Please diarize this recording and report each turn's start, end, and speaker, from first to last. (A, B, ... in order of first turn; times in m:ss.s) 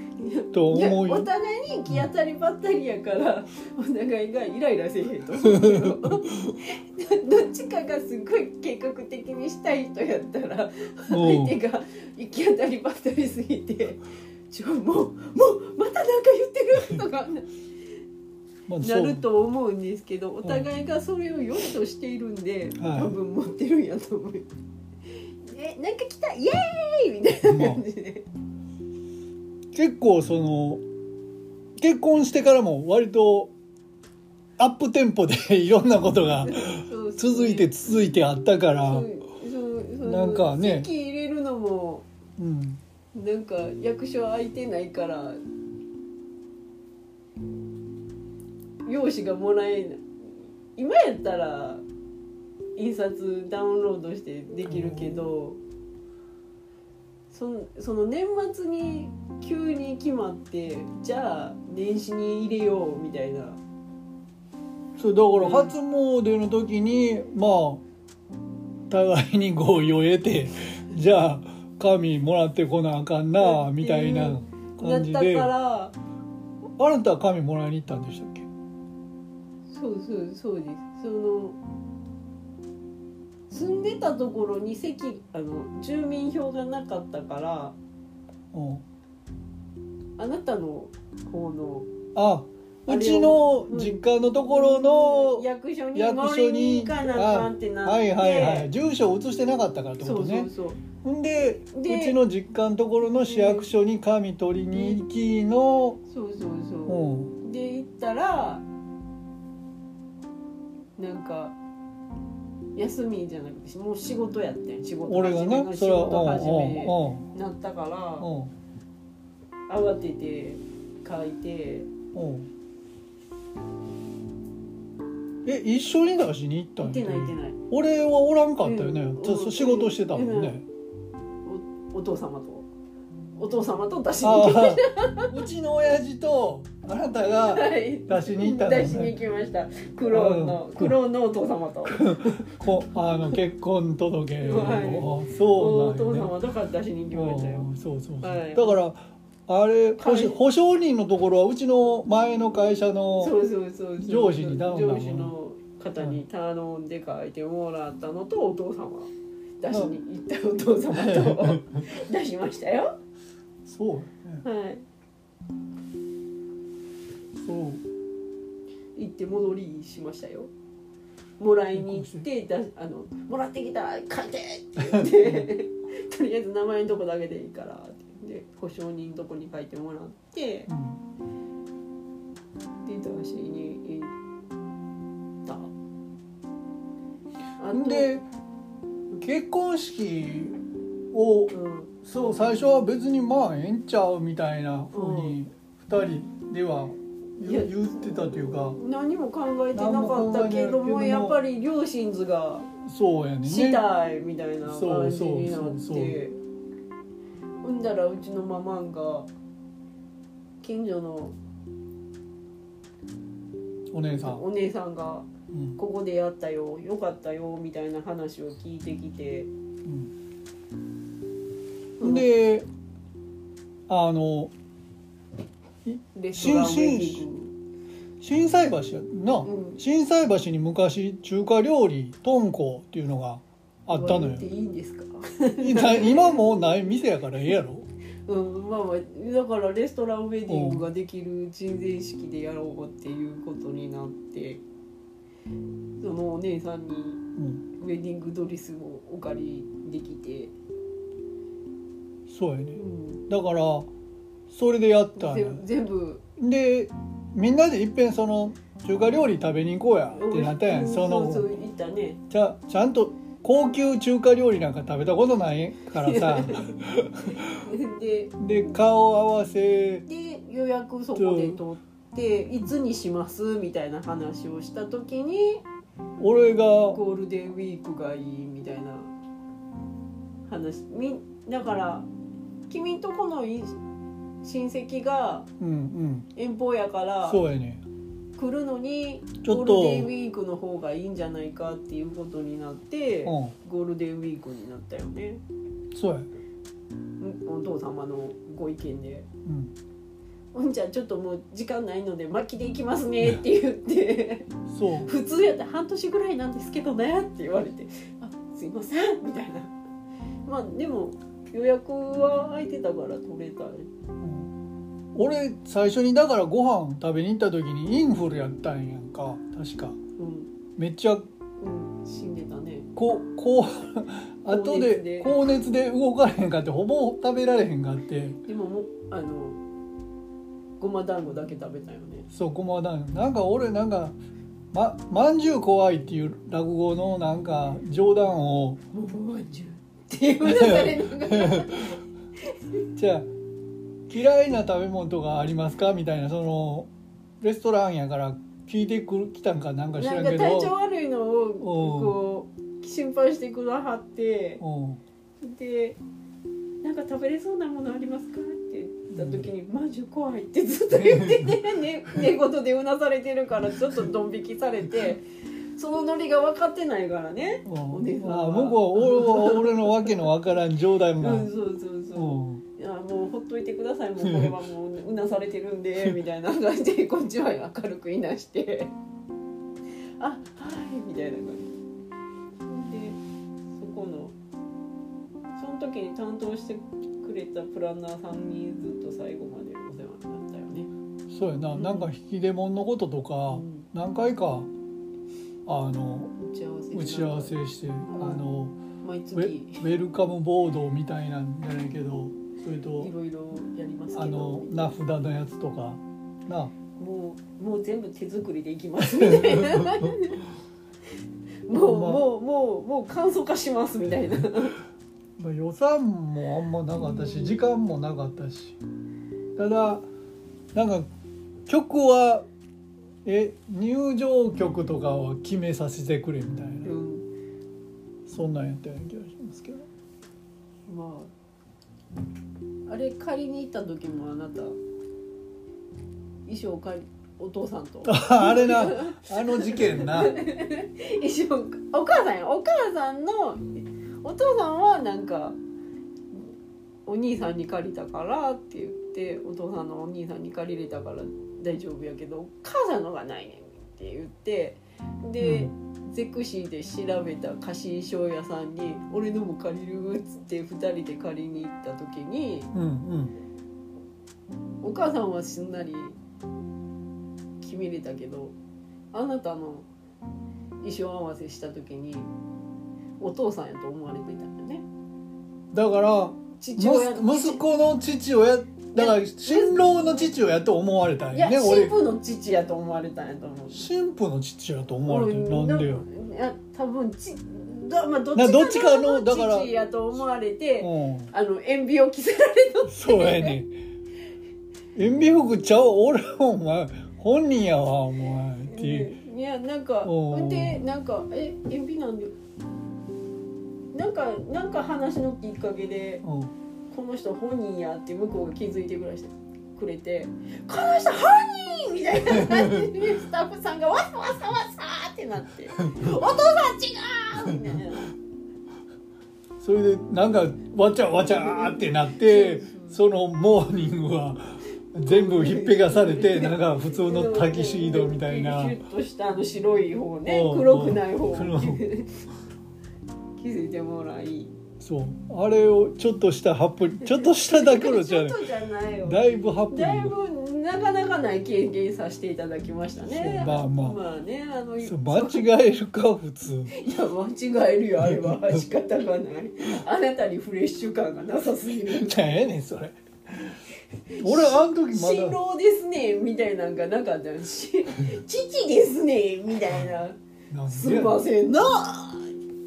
0:00.2-0:17.5 A
0:00.5-0:01.3 B
0:05.4-0:06.6 B
0:11.1-0:11.6 B
0:18.7-0:19.2 B
0:18.8-0:24.5 A
0:22.8-0:23.1 B
0:25.4-0:28.2 A
0:27.4-0:27.8 B
0:29.7-0:30.8 B
0:31.8-0:33.5 B
0:34.6-0:39.1 B
0:36.4-0:37.7 A
0:38.8-0:42.0 A
0:40.0-0:40.9 B
0:42.4-0:42.8 B
0:43.1-0:45.4 A
0:48.8-0:50.0 A
0:50.8-0:51.8 A
0:52.8-0:55.6 A
0:54.7-0:55.3 B
0:57.3-1:03.6 A
1:05.0-1:07.8 B
1:05.3-1:05.7 A
1:08.9-1:15.5 B
1:13.4-1:15.9 A
1:16.8-1:18.5 B
1:19.7-1:21.6 A
1:23.5-1:27.8 A
1:28.5-1:28.8 B
1:30.2-1:31.9 A
1:32.1-1:40.5 B
1:32.9-1:38.7 A
1:40.0-1:40.8 A
1:41.0-1:46.0 B
1:41.6-1:42.2 A
1:43.0-1:43.7 A
1:44.7-1:45.0 A
1:46.1-1:48.6 A
1:46.9-1:47.3 B
1:51.0-1:51.6 A
1:52.8-1:58.3 A
1:55.0-1:57.2 B
1:58.2-1:58.5 B
1:59.7-2:01.9 A
2:02.1-2:02.5 B
2:05.4-2:10.6 B
2:06.8-2:07.6 A
2:08.6-2:10.6 A
2:11.4-2:12.7 A
2:13.4-2:15.4 A
2:14.2-2:19.2 B
2:17.5-2:23.4 A
2:20.1-2:21.0 B
2:21.8-2:26.3 B
2:24.4-2:27.7 A
2:27.1-2:33.3 B
2:28.2-2:28.8 A
2:30.0-2:30.4 A
2:33.2-2:43.0 A
2:34.0-2:35.3 B
2:40.9-2:41.8 B
2:43.6-2:44.4 B
2:44.4-2:44.8 A
2:47.4-2:47.8 B
2:49.0-2:50.5 A
2:51.4-3:00.7 A
2:51.7-2:52.2 B
2:54.8-2:55.5 B
3:00.7-3:01.0 B
3:02.8-3:04.1 A
3:05.4-3:05.7 A
3:07.6-3:08.1 A
3:07.7-3:08.2 B
3:09.2-3:10.6 B
3:11.1-3:18.8 B
3:11.5-3:11.9 A
3:14.9-3:15.4 A
3:17.4-3:22.7 A
3:19.7-3:21.4 B
3:22.8-3:23.8 B
3:23.4-3:26.4 A
3:24.6-3:26.2 B
3:27.6-3:29.3 A
3:30.6-3:31.4 A
3:33.9-3:34.4 B
3:34.2-3:39.5 A
3:35.5-3:35.8 B
3:39.8-3:40.1 B
3:42.0-3:42.3 A
3:42.0-3:42.7 B
3:43.9-3:44.5 B
3:45.8-3:47.2 B
3:46.1-3:47.5 A
3:48.2-3:54.5 B
3:49.4-3:49.8 A
3:53.9-3:56.3 A
3:55.6-3:57.9 B
3:58.3-4:04.6 A
4:00.5-4:00.8 B
4:06.0-4:07.2 A
4:07.4-4:07.6 B
4:07.8-4:10.5 A
4:12.3-4:13.9 B
4:12.7-4:13.2 A
4:14.5-4:15.6 B
4:15.2-4:16.2 A
4:16.4-4:21.5 B
4:20.1-4:22.2 A
4:22.3-4:27.6 B
4:25.9-4:26.7 A
4:27.6-4:28.4 A
4:28.4-4:30.0 B
4:30.0-4:35.6 A
4:31.2-4:31.6 B
4:36.2-4:37.0 B
4:36.9-4:39.1 A
4:40.5-4:42.1 A
4:42.7-4:43.8 A
4:44.4-4:45.5 A
4:45.6-4:46.3 B
4:46.3-4:47.4 A
4:47.2-4:47.8 B
4:48.4-4:55.4 A
4:49.4-4:50.1 B
4:53.2-4:53.5 B
4:55.9-4:56.3 B
4:57.2-4:59.3 A
4:59.4-4:59.7 B
5:00.5-5:04.5 A
5:04.7-5:05.1 B
5:05.0-5:09.7 A
5:10.4-5:13.9 A
5:14.2-5:14.5 B
5:15.1-5:20.0 B
5:20.2-5:20.5 A
5:20.8-5:21.3 B
5:21.6-5:22.9 A
5:23.0-5:28.4 B
5:24.5-5:25.5 A
5:28.4-5:29.6 A
5:30.8-5:32.3 A
5:32.3-5:34.2 B
5:34.7-5:38.8 B
5:38.9-5:42.8 A
5:40.4-5:42.0 B
5:43.0-5:43.3 B
5:44.1-5:46.9 B
5:47.4-5:50.7 B
5:50.0-5:54.6 A
5:51.6-5:52.2 B
5:54.6-5:55.0 B
5:55.4-5:56.0 A
5:56.8-6:05.2 A
5:59.1-5:59.5 B
6:00.9-6:01.6 B
6:05.8-6:10.3 A
6:07.6-6:11.5 B
6:11.2-6:18.9 A
6:12.1-6:12.6 B
6:14.2-6:14.5 B
6:20.2-6:21.7 A
6:22.6-6:23.2 A
6:23.8-6:24.3 A
6:25.6-6:30.9 A
6:31.3-6:34.7 B
6:31.7-6:32.1 A
6:33.5-6:33.9 A
6:35.6-6:36.3 B
6:36.4-6:38.4 A
6:36.9-6:38.8 B
6:39.0-6:39.8 A
6:39.3-6:43.1 B
6:43.0-6:44.9 A
6:44.1-6:46.7 B
6:47.0-6:50.4 A
6:49.1-6:50.1 B
6:51.7-6:54.8 A
6:51.7-6:52.2 B
6:55.4-6:58.8 B
6:57.0-6:57.6 A
6:59.6-7:00.1 B
7:00.7-7:01.1 B
7:01.7-7:02.4 B
7:03.2-7:06.9 B
7:06.8-7:07.2 A
7:08.3-7:09.9 B
7:10.9-7:11.3 A
7:12.9-7:14.8 A
7:16.4-7:25.6 A
7:18.0-7:20.4 B
7:27.0-7:42.7 A
7:35.4-7:35.7 B
7:42.7-7:43.3 B
7:44.8-7:46.2 A
7:47.6-7:48.5 A
7:49.1-7:49.9 A
7:50.8-7:52.3 A
7:53.2-7:54.8 A
7:55.7-8:01.9 B
7:56.6-7:57.6 A
7:58.9-8:00.3 A
8:01.3-8:03.9 A
8:03.7-8:06.0 B
8:05.0-8:13.6 A
8:08.3-8:09.7 B
8:10.8-8:11.3 B
8:12.9-8:13.7 B
8:14.9-8:19.1 B
8:18.7-8:22.3 A
8:20.0-8:20.8 B
8:23.9-8:26.2 A
8:26.2-8:26.5 B
8:26.9-8:38.1 A
8:32.3-8:32.9 B
8:35.8-8:36.2 B
8:37.4-8:37.8 B
8:39.6-8:48.8 B
8:41.1-8:43.0 A
8:45.0-8:52.2 A
8:50.2-8:51.8 B
8:53.4-8:54.5 A
8:54.8-8:58.4 B
8:57.0-9:05.4 A
8:59.0-9:00.1 B
9:03.0-9:04.0 B
9:04.8-9:06.7 B
9:06.7-9:12.4 A
9:08.0-9:08.6 B
9:11.9-9:13.6 B
9:14.1-9:22.3 A
9:14.2-9:15.4 B
9:20.5-9:21.2 B